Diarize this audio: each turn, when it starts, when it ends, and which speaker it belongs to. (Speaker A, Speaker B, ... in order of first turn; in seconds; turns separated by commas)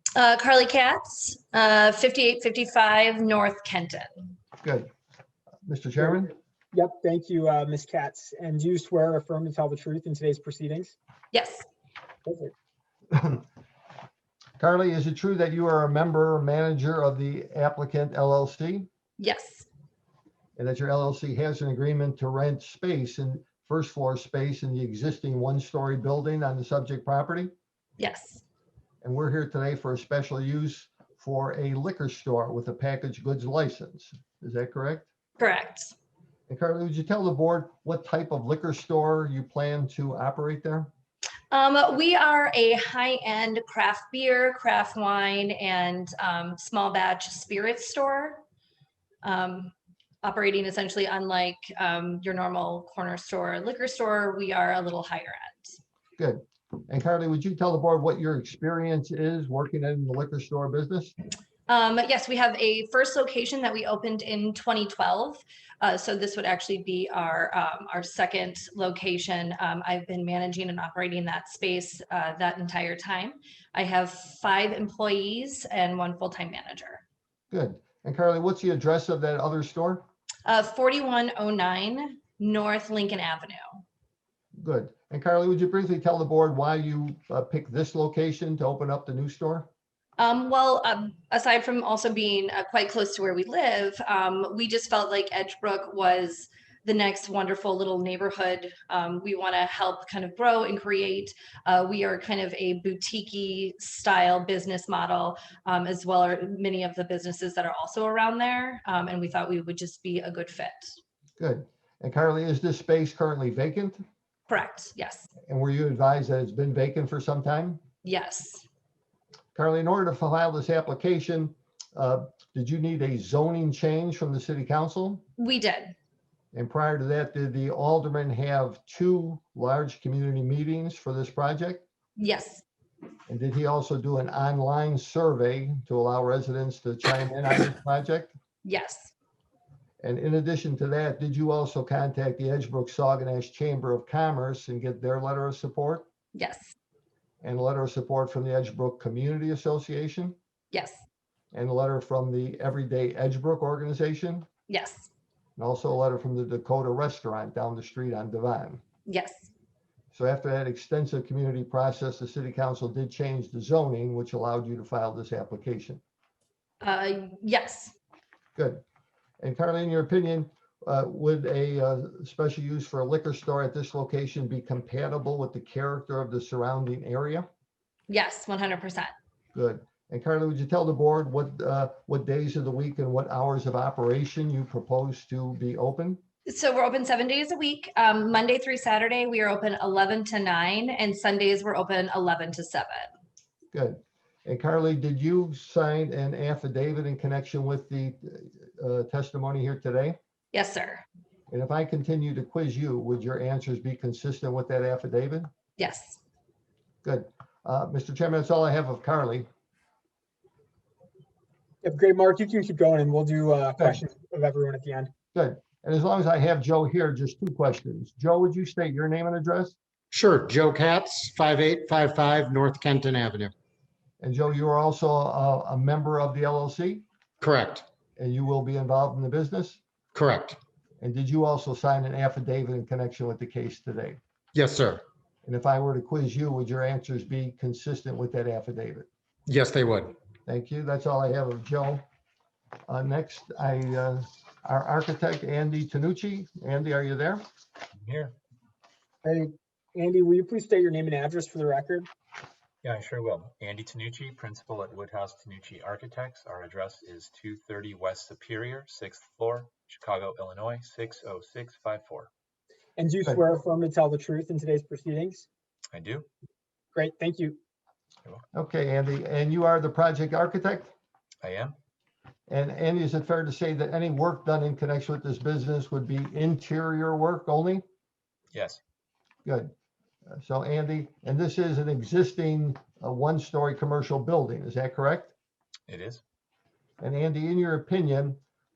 Speaker A: 0.2-4.1, Speaker B: 4.6-4.9, Speaker B: 5.7-6.3, Speaker C: 6.7-10.9, Speaker A: 11.3-11.6, Speaker C: 12.2-12.5, Speaker B: 13.1-13.4, Speaker B: 14.6-18.9, Speaker A: 19.2-19.7, Speaker B: 20.6-27.5, Speaker A: 28.0-28.4, Speaker B: 29.0-35.1, Speaker A: 35.4-35.9, Speaker B: 36.5-40.9, Speaker A: 41.5-48.4, Speaker A: 49.2-49.7, Speaker A: 50.2-55.8, Speaker B: 56.2-61.1, Speaker A: 61.7-77.0, Speaker B: 77.5-80.0, Speaker A: 80.5-83.8, Speaker B: 84.6-89.7, Speaker A: 90.2-111.0, Speaker B: 111.4-114.0, Speaker A: 114.5-115.3, Speaker B: 115.5-117.8, Speaker A: 118.0-118.7, Speaker B: 119.5-125.2, Speaker A: 125.4-125.9, Speaker B: 126.5-131.8, Speaker A: 132.2-132.6, Speaker B: 133.3-138.3, Speaker A: 138.6-139.1, Speaker B: 140.0-146.1, Speaker A: 146.3-146.7, Speaker B: 147.4-150.3, Speaker A: 150.7-151.0, Speaker B: 151.5-154.5, Speaker A: 154.7-155.1, Speaker B: 155.6-158.8, Speaker A: 159.1-159.5, Speaker B: 160.1-166.0, Speaker A: 166.8-167.9, Speaker B: 168.6-168.8, Speaker B: 169.4-177.5, Speaker A: 178.1-179.1, Speaker B: 179.5-186.2, Speaker A: 186.5-193.1, Speaker B: 193.7-200.2, Speaker A: 200.5-201.0, Speaker B: 201.5-205.5, Speaker A: 205.8-206.2, Speaker B: 207.0-209.5, Speaker C: 211.8-215.1, Speaker B: 215.3-219.8, Speaker D: 220.1-223.5, Speaker B: 224.2-227.1, Speaker D: 227.4-227.9, Speaker B: 228.2-229.8, Speaker D: 230.1-230.6, Speaker B: 231.0-234.2, Speaker D: 234.5-235.0, Speaker B: 235.4-239.1, Speaker D: 239.5-240.1, Speaker B: 240.5-242.1, Speaker B: 242.9-247.4, Speaker E: 248.0-248.3, Speaker C: 249.2-252.1, Speaker E: 252.8-262.3, Speaker C: 263.0-265.4, Speaker E: 265.9-266.3, Speaker C: 266.9-267.6, Speaker B: 268.5-270.9, Speaker E: 271.4-271.8, Speaker B: 272.5-277.8, Speaker E: 278.5-278.8, Speaker B: 279.4-279.7, Speaker B: 280.3-285.3, Speaker E: 285.9-286.2, Speaker B: 287.0-288.4